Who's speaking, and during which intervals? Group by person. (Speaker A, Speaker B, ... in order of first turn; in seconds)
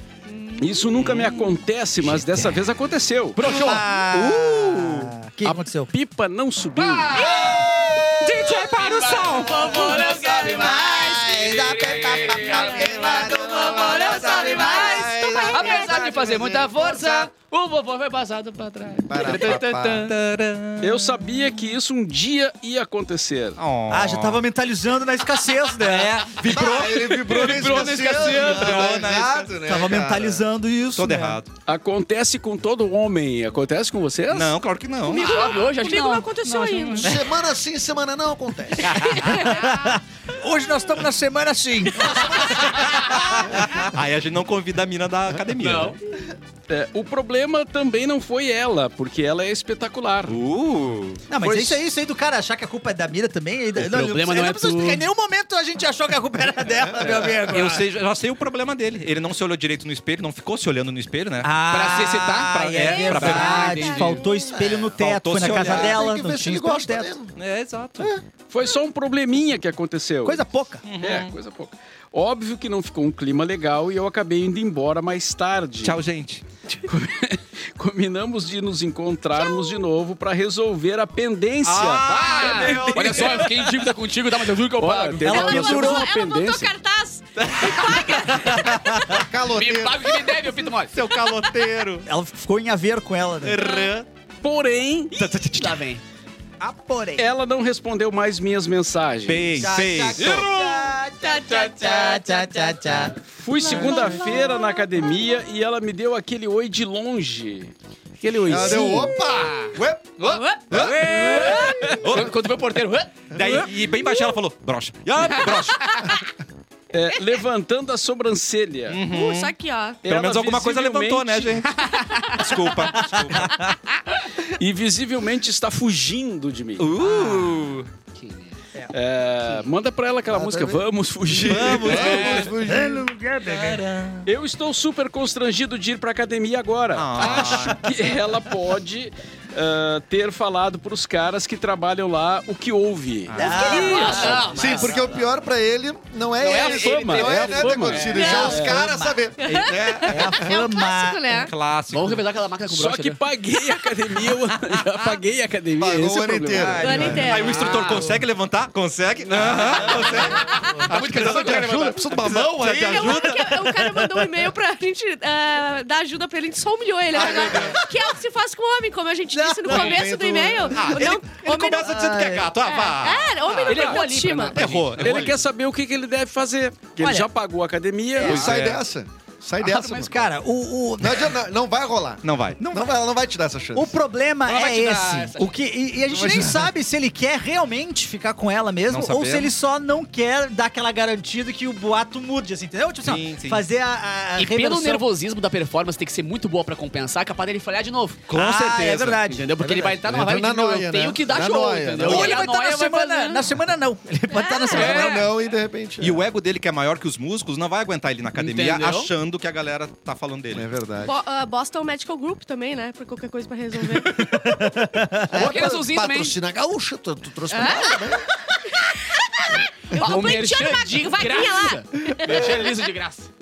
Speaker A: 0.3-0.8, 9.5-11.1, 12.5-16.0, 35.1-37.2, 39.2-39.7, 62.8-64.5, 79.3-79.8, 85.2-89.0, 93.6-93.9, 100.4-103.1, 103.7-104.6, 110.2-111.9, 119.1-120.0, 143.4-144.8, 148.1-148.6, 149.4-151.5, 156.8-157.8, 160.4-160.8, 162.7-172.1, 172.6-174.7, 204.3-205.1, 211.0-214.6, 217.5-218.1, 218.6-222.6
Speaker B: 0.6-3.7, 4.2-4.5, 5.0-7.2, 8.7-8.9, 20.8-23.6, 31.6-34.6, 46.7-50.4, 51.4-51.8, 68.5-76.0, 76.7-83.7, 84.7-86.7, 94.4-95.2, 97.2-100.3, 103.2-109.2, 111.2-112.0, 116.9-119.0, 120.0-121.7, 124.5-126.9, 128.9-132.3, 134.2-144.3, 146.6-148.8, 152.7-157.2, 175.0-178.6
Speaker C: 0.9-1.6, 4.1-4.6, 8.4-9.1, 19.2-21.2, 23.6-24.4, 25.8-29.6, 30.9-31.5, 34.3-35.5, 42.4-46.0, 50.2-51.3, 57.5-61.7, 62.4-63.9, 64.9-66.0, 67.3-68.1, 70.8-71.3, 75.8-76.4, 81.6-83.6, 87.4-88.8, 90.9-92.1, 93.4-94.1, 95.1-95.9, 99.2-100.5, 110.7-112.3, 113.3-116.1, 118.9-119.5, 120.0-121.8, 122.3-123.7, 126.8-127.9, 131.3-132.6, 133.4-134.3, 136.9-137.9, 143.3-143.9, 149.4-149.9, 151.3-152.2, 154.2-155.2, 156.5-163.8, 167.2-167.8, 170.7-174.0, 174.5-175.4, 178.2-178.8, 182.2-182.6, 188.9-189.5, 193.0-193.6, 206.0-210.7
Speaker D: 3.3-3.9, 6.7-7.7, 8.4-19.9, 27.3-28.9, 35.1-37.0, 45.6-46.0, 53.8-55.0, 61.7-64.2, 82.1-85.5, 89.5-91.0, 95.5-96.0, 109.1-113.1, 121.8-122.3, 128.1-128.6, 143.6-145.3, 146.4-148.7, 151.9-153.2, 157.5-158.0, 159.3-162.1, 169.7-170.1, 173.6-175.4, 179.6-180.2, 184.5-185.6, 194.3-203.4, 204.7-205.3, 208.3-209.1, 215.3-216.4, 219.9-223.3
Speaker E: 3.4-5.9, 7.1-15.7, 23.9-27.1, 29.6-31.4, 38.8-43.7, 51.3-57.8, 61.4-67.2, 70.2-70.8, 85.2-86.1, 92.0-93.7, 96.6-97.3, 99.6-103.1, 123.0-123.7, 127.2-127.5, 132.4-133.8, 143.3-144.6, 148.5-149.3, 150.0-151.3, 163.8-164.2, 169.3-170.0, 171.8-172.4, 177.0-177.3, 180.0-181.4, 182.6-183.0, 183.7-195.1, 198.3-199.5, 202.0-205.3, 214.1-215.6
Speaker F: 7.2-7.5, 12.5-17.3, 19.1-20.1, 26.4-30.4, 37.0-38.9, 56.7-57.8, 64.5-64.9, 65.4-67.3, 89.1-90.2, 108.4-111.6, 130.3-133.1, 144.3-150.5, 155.8-157.4, 159.3-163.3, 167.1-167.9, 169.7-171.1, 178.2-180.3, 181.0-183.9, 186.1-186.7, 199.6-202.4, 204.7-206.2, 210.5-211.2, 215.3-218.2